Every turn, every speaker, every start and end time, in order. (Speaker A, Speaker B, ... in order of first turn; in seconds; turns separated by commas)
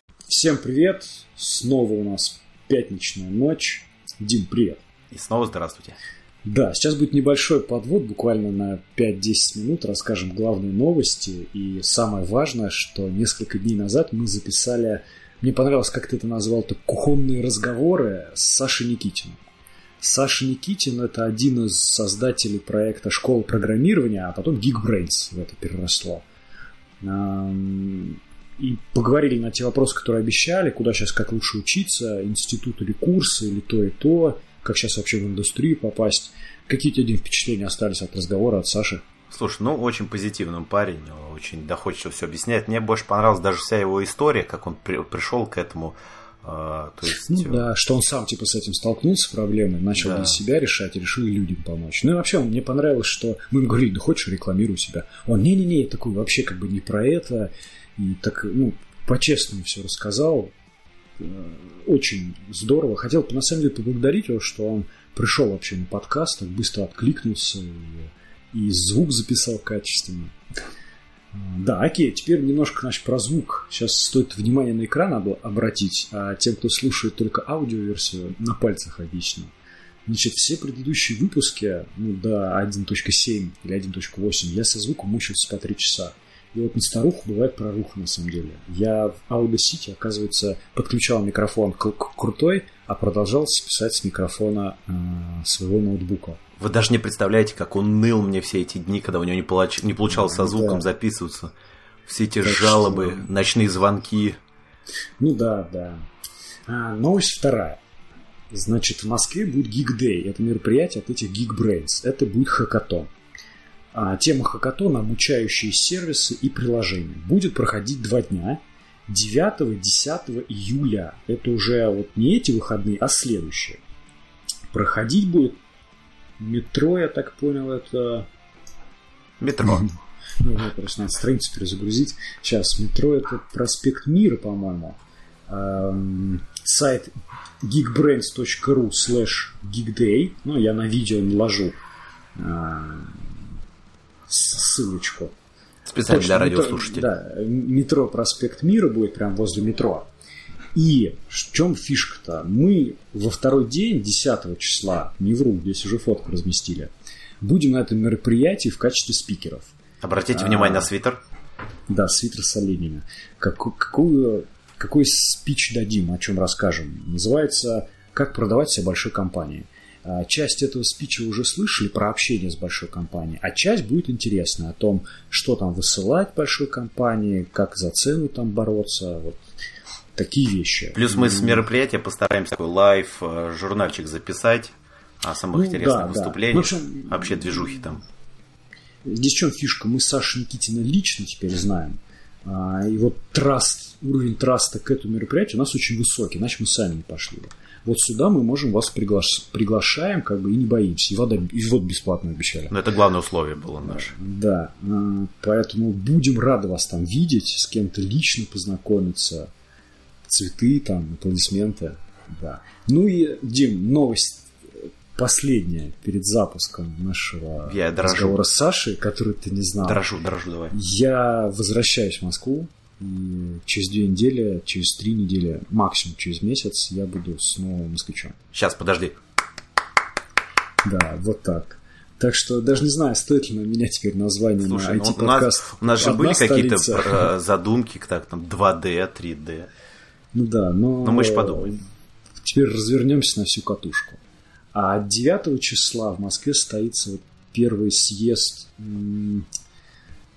Speaker A: 0.3-4.8, Speaker B: 5.1-6.0, Speaker A: 6.4-19.4, Speaker A: 20.0-26.2, Speaker A: 27.0-39.0, Speaker B: 39.3-47.6, Speaker A: 47.0-60.5, Speaker B: 50.0-50.4, Speaker A: 61.2-70.3, Speaker A: 71.3-79.5, Speaker A: 80.0-96.4, Speaker B: 96.6-101.5, Speaker A: 100.1-100.8, Speaker B: 102.1-104.4, Speaker A: 102.4-103.2, Speaker A: 105.2-106.0, Speaker A: 106.7-107.8, Speaker A: 108.5-113.1, Speaker A: 113.9-123.8, Speaker A: 124.7-125.6, Speaker A: 126.4-128.3, Speaker B: 129.4-129.9, Speaker A: 130.4-141.7, Speaker A: 142.3-143.5, Speaker A: 144.3-145.3, Speaker B: 145.9-147.1, Speaker A: 146.1-150.1, Speaker A: 150.7-159.7, Speaker B: 160.0-161.2, Speaker A: 160.3-160.9, Speaker A: 161.9-179.4, Speaker A: 180.1-181.6, Speaker B: 180.9-188.0, Speaker A: 185.5-187.4, Speaker A: 189.0-202.7, Speaker B: 202.7-204.1, Speaker A: 203.9-209.5, Speaker A: 210.2-220.0, Speaker B: 217.7-218.4, Speaker B: 219.8-220.7, Speaker A: 220.7-228.4, Speaker B: 228.5-229.2, Speaker A: 230.8-237.3, Speaker B: 234.6-239.7, Speaker A: 240.3-241.8, Speaker B: 241.0-241.7, Speaker A: 242.4-244.2, Speaker A: 244.7-249.5